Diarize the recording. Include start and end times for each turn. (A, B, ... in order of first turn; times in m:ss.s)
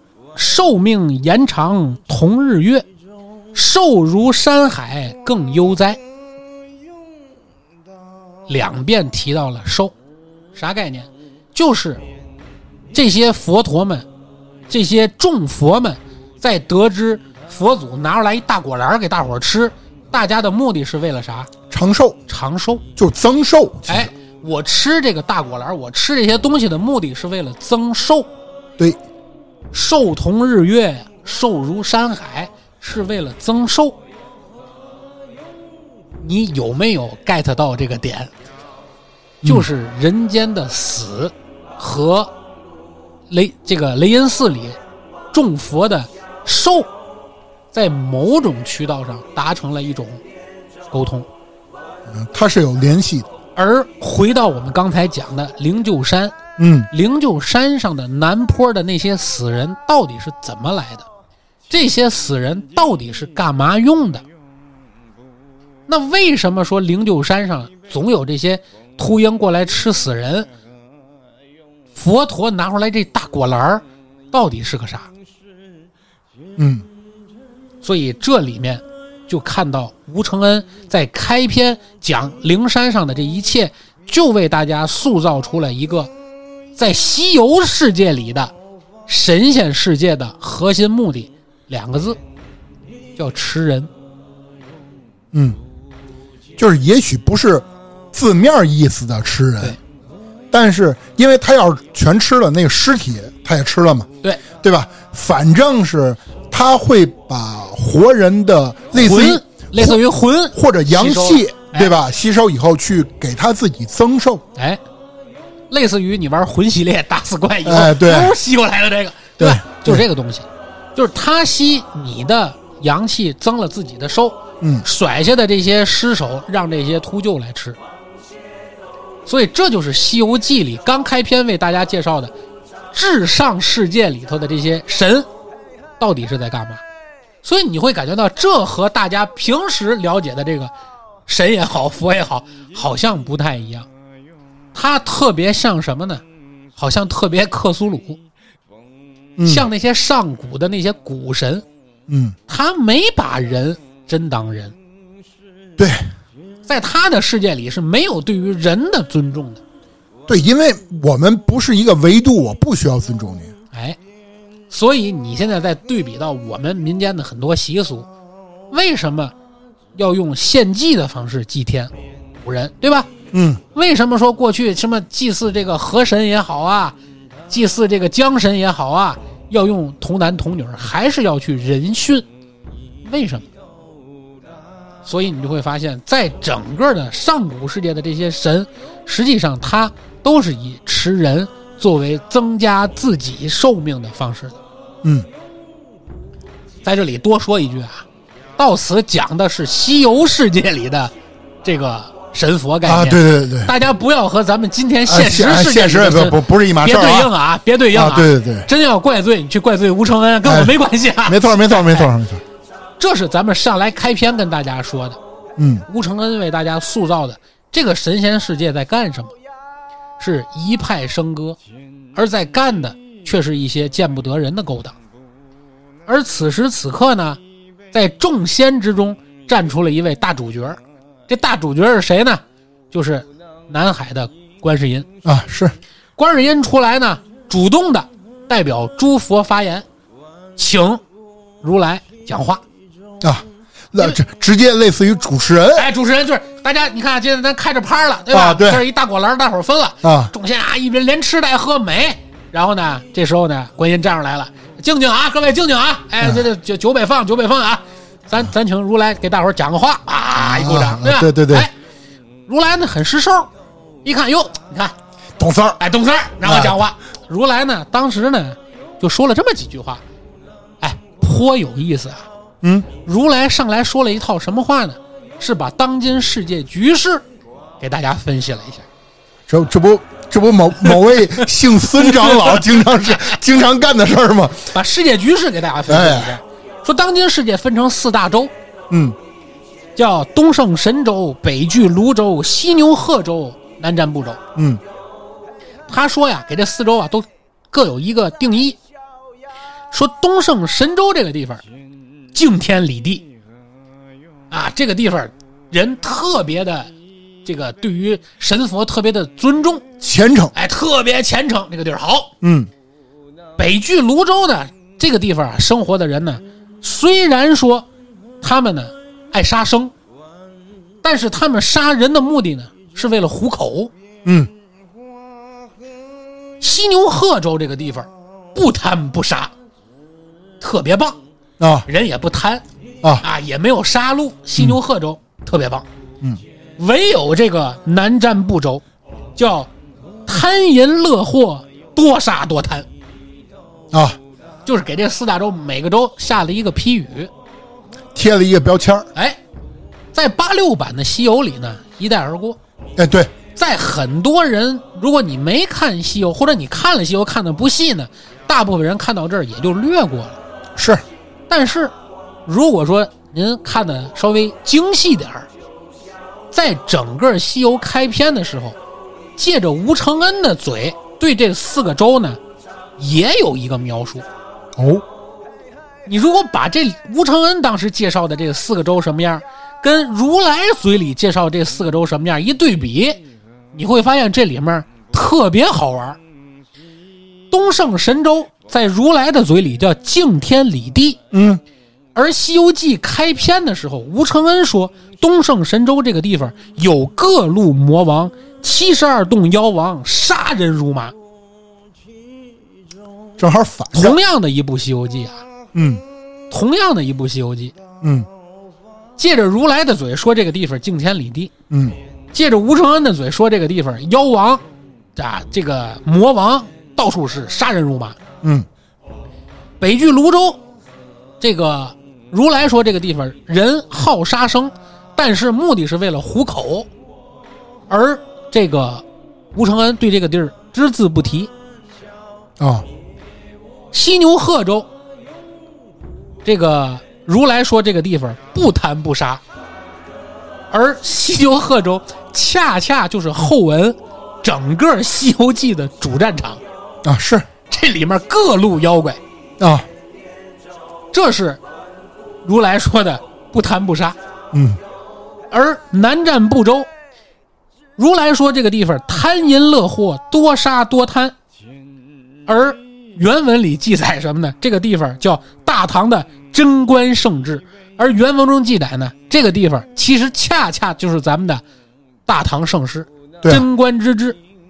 0:00.3-0:02.8 A
0:03.5-0:06.0 A
0:08.5-0:09.9 A
0:10.5-0:12.0 A
0:12.9-0:14.1 A
0:14.7-0:21.5 A
0:21.7-0:22.2 B
0:22.3-0:22.8 A
0:23.0-0:24.1 B
0:23.9-0:28.3 A
0:29.7-0:34.0 A
0:36.2-0:38.3 A
0:39.4-0:42.3 A
0:43.3-0:44.8 A
0:45.3-0:46.9 A
0:47.7-0:50.2 A
0:50.9-0:51.3 A
0:52.1-0:53.3 B
0:53.6-0:56.4 A
0:56.6-0:56.9 B
0:56.9-1:01.1 A
1:01.7-1:04.2 A
1:05.9-1:10.5 A
1:11.9-1:15.1 A
1:16.6-1:16.8 B
1:17.8-1:26.1 A
1:26.8-1:28.5 A
1:29.1-1:32.2 A
1:33.2-1:33.9 A
1:35.3-1:35.6 B
1:36.6-1:39.8 B
1:40.5-1:50.0 B
1:48.9-1:51.9 A
1:50.5-1:54.4 B
1:55.7-2:07.8 A
1:57.6-1:58.3 B
1:59.4-2:00.0 B
2:09.2-2:12.3 A
2:12.9-2:15.3 A
2:16.0-2:16.8 A
2:17.4-2:20.7 A
2:21.3-2:23.9 A
2:24.7-2:26.2 A
2:26.8-2:28.2 A
2:29.4-2:29.7 B
2:29.4-2:31.6 A
2:32.1-2:32.4 B
2:32.5-2:34.7 A
2:35.8-2:36.1 B
2:36.7-2:39.6 A
2:40.3-2:43.5 B
2:43.7-2:44.0 A
2:44.7-2:48.1 A
2:48.7-2:49.3 A
2:49.9-2:51.9 A
2:52.4-2:53.1 A
2:53.3-2:53.6 B
2:53.7-2:57.0 A
2:57.5-3:02.2 A
3:03.0-3:03.5 A
3:05.0-3:14.6 A
3:16.8-3:18.0 A
3:18.6-3:21.1 A
3:21.6-3:32.1 A
3:22.8-3:23.7 B
3:25.1-3:27.3 B
3:27.9-3:28.7 B
3:30.4-3:30.7 B
3:31.2-3:32.4 B
3:33.0-3:35.2 A
3:35.6-3:35.8 B
3:35.9-3:39.3 A
3:40.2-3:41.6 A
3:42.1-3:45.0 A
3:46.1-3:47.4 A
3:47.9-3:55.1 A
3:55.2-3:55.8 B
3:56.2-3:59.8 A
4:00.6-4:01.0 A
4:01.6-4:02.6 A
4:03.2-4:05.9 B
4:05.7-4:21.7 A
4:08.3-4:08.8 B
4:10.0-4:10.3 B
4:20.4-4:21.7 B
4:22.5-4:23.5 A
4:24.0-4:24.9 A
4:25.4-4:25.8 B
4:25.8-4:30.0 A
4:26.4-4:26.8 B
4:30.8-4:32.3 A
4:32.6-4:32.9 B
4:33.0-4:37.2 A
4:37.8-4:38.8 A
4:39.5-4:44.7 B
4:41.1-4:43.3 A
4:44.7-4:48.5 A
4:45.9-4:46.4 B
4:48.9-4:49.2 B
4:50.0-4:54.4 A
4:54.5-4:54.8 B
4:55.9-4:58.8 A
4:59.9-5:01.6 A
5:02.3-5:03.2 A
5:04.5-5:06.9 A
5:07.4-5:09.9 A
5:10.0-5:10.5 B
5:10.5-5:12.3 A
5:12.4-5:12.7 B
5:13.6-5:17.9 A
5:18.4-5:19.9 A
5:21.0-5:23.9 A
5:24.2-5:24.5 B
5:26.6-5:29.5 A
5:30.6-5:31.2 A
5:31.6-5:31.8 B
5:31.8-5:32.6 A
5:33.2-5:35.8 A
5:36.8-5:38.8 A
5:39.4-5:39.7 A
5:40.3-5:42.9 A
5:43.9-5:44.2 B
5:44.6-5:47.3 A
5:48.1-5:49.1 B
5:50.1-5:52.6 A
5:53.0-5:53.3 B
5:53.6-6:00.4 A
6:00.8-6:01.0 B
6:01.5-6:01.9 A
6:02.4-6:05.5 A
6:06.5-6:08.8 A
6:09.4-6:12.4 A
6:13.0-6:14.2 A
6:14.8-6:15.0 B
6:16.0-6:23.2 A
6:23.7-6:26.2 A
6:27.5-6:31.2 A
6:31.3-6:31.6 B
6:32.1-6:41.1 A
6:43.4-6:44.2 B
6:43.9-6:45.4 A
6:45.7-6:46.0 B
6:46.5-6:47.7 A
6:48.0-6:48.3 B
6:49.2-6:51.5 A
6:51.7-6:52.0 B
6:52.3-6:54.6 A
6:55.2-6:58.2 A
6:59.8-7:00.6 A
7:01.4-7:06.9 A
7:07.9-7:11.5 A
7:12.6-7:12.8 B
7:13.9-7:14.9 A
7:16.4-7:19.4 A
7:20.7-7:26.6 A
7:27.0-7:27.5 B
7:27.7-7:29.2 A
7:29.6-7:29.9 B
7:31.1-7:31.6 A
7:32.4-7:34.2 A
7:34.5-7:34.8 B
7:35.5-7:36.9 A
7:38.0-7:41.3 A
7:42.5-7:51.6 A
7:52.3-7:54.4 A